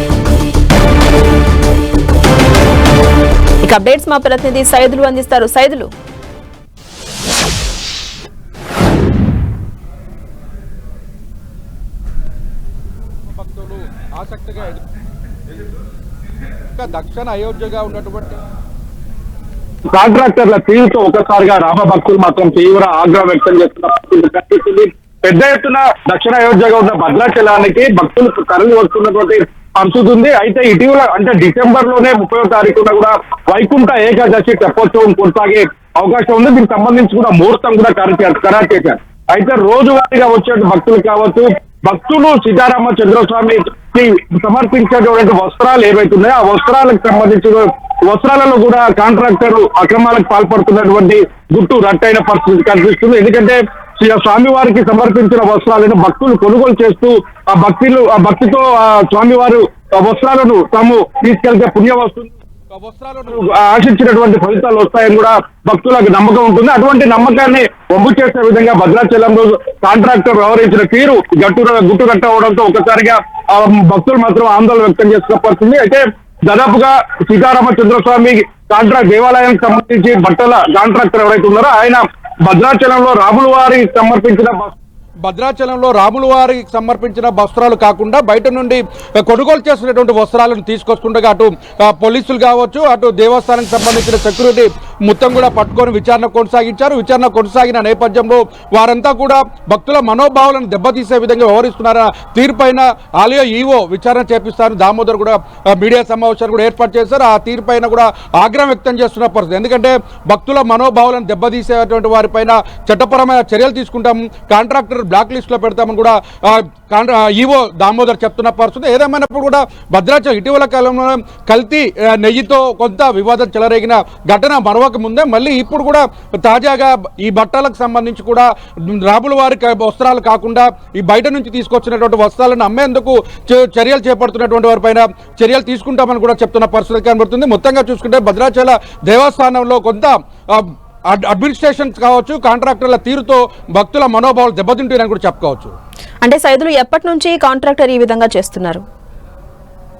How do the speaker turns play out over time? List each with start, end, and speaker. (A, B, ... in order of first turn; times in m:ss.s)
0:03.6-0:05.9 A
0:13.3-0:14.8 B
0:16.8-0:18.4 B
0:19.9-1:02.3 C
1:02.7-1:03.4 B
1:03.3-1:24.7 C
1:25.2-2:25.7 B
2:26.2-2:28.8 A